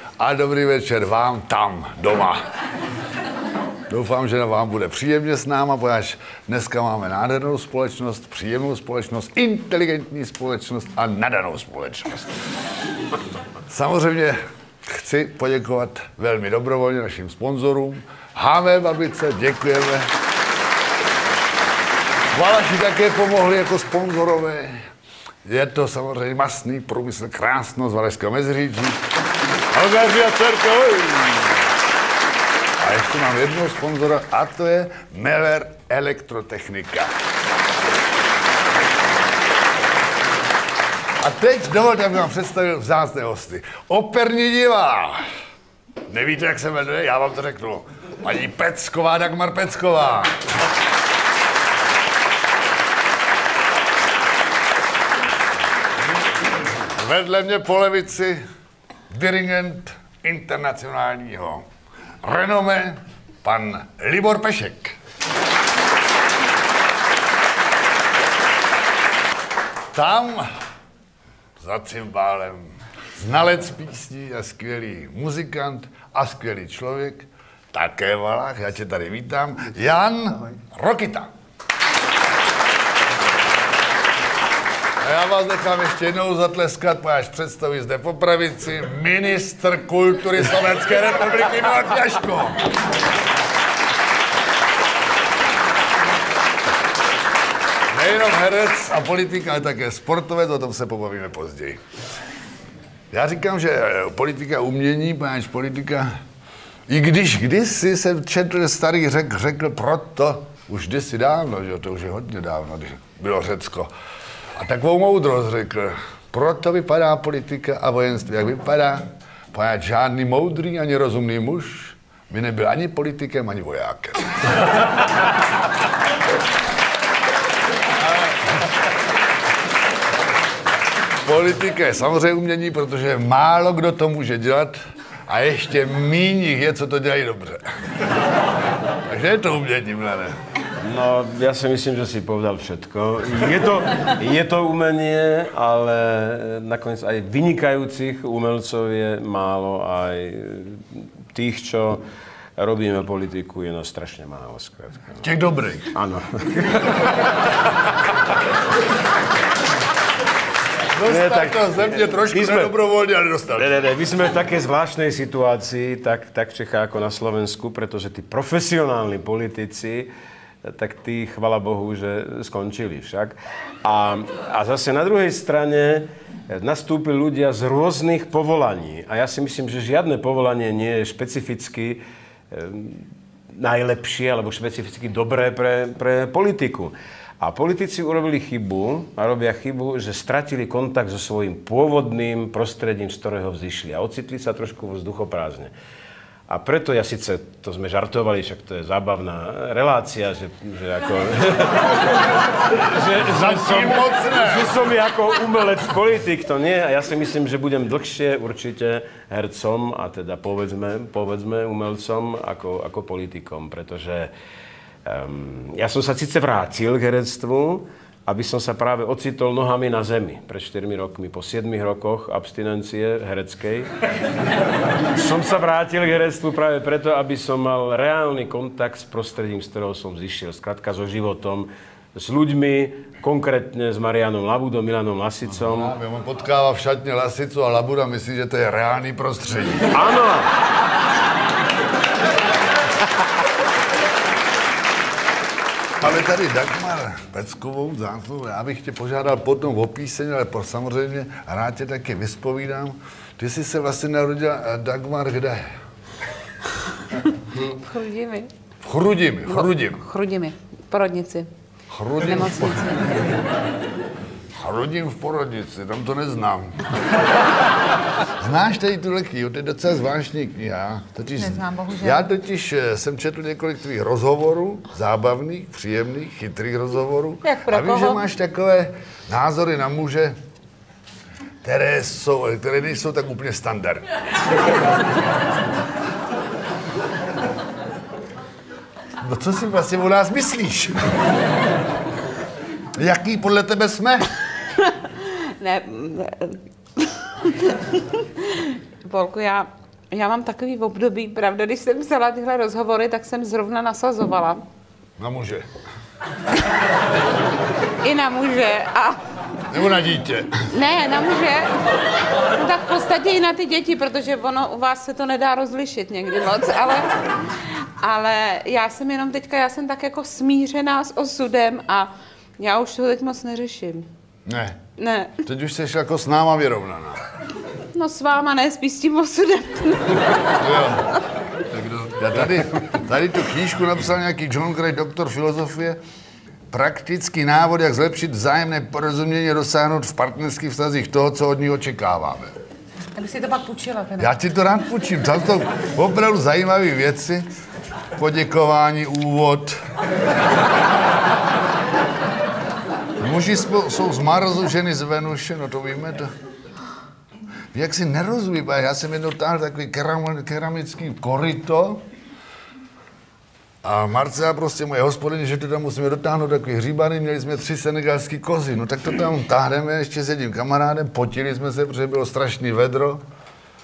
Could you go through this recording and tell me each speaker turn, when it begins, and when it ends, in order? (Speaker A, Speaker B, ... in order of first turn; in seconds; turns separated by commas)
Speaker A: 0.2-2.5, Speaker A: 3.9-12.4, Speaker A: 13.7-20.1, Speaker A: 22.3-24.8, Speaker A: 25.4-29.0, Speaker A: 29.7-31.7, Speaker A: 32.8-37.1, Speaker A: 41.2-45.2, Speaker A: 46.1-50.5, Speaker A: 56.7-58.4, Speaker A: 59.1-61.7, Speaker A: 62.2-65.0, Speaker A: 69.9-70.6, Speaker A: 71.6-81.3, Speaker A: 85.0-92.7, Speaker A: 97.9-101.8, Speaker A: 103.1-106.1, Speaker A: 106.9-113.9, Speaker A: 114.5-124.7, Speaker A: 131.2-137.8, Speaker A: 138.9-140.4, Speaker B: 140.8-152.0, Speaker B: 152.6-155.2, Speaker A: 155.2-155.9, Speaker B: 155.9-157.7, Speaker A: 160.9-163.7, Speaker B: 161.0-162.7, Speaker B: 163.6-170.1, Speaker B: 170.6-195.7, Speaker B: 196.5-214.3, Speaker A: 203.2-204.7, Speaker B: 215.0-223.9, Speaker B: 225.1-235.9, Speaker A: 235.6-239.9, Speaker B: 239.9-240.5, Speaker A: 246.0-255.7, Speaker C: 257.6-258.5, Speaker A: 258.8-260.0, Speaker C: 259.5-261.5, Speaker A: 261.9-262.8, Speaker C: 262.2-263.3, Speaker A: 264.6-266.9, Speaker A: 268.4-280.4, Speaker C: 271.4-272.2, Speaker C: 277.4-278.2, Speaker A: 281.6-284.1, Speaker A: 289.2-291.1, Speaker A: 292.9-294.3, Speaker C: 294.9-304.6, Speaker A: 305.2-305.7, Speaker C: 308.0-309.2, Speaker A: 309.7-310.7, Speaker C: 310.7-311.7, Speaker C: 312.4-324.1, Speaker A: 324.5-324.8, Speaker C: 325.0-325.4, Speaker A: 325.4-327.2, Speaker C: 327.9-330.6, Speaker A: 330.5-331.1, Speaker A: 331.6-336.0, Speaker A: 336.7-342.6, Speaker C: 343.1-344.3, Speaker A: 344.2-347.5, Speaker A: 348.1-349.8, Speaker A: 353.2-356.3, Speaker A: 357.7-362.0, Speaker A: 363.8-373.2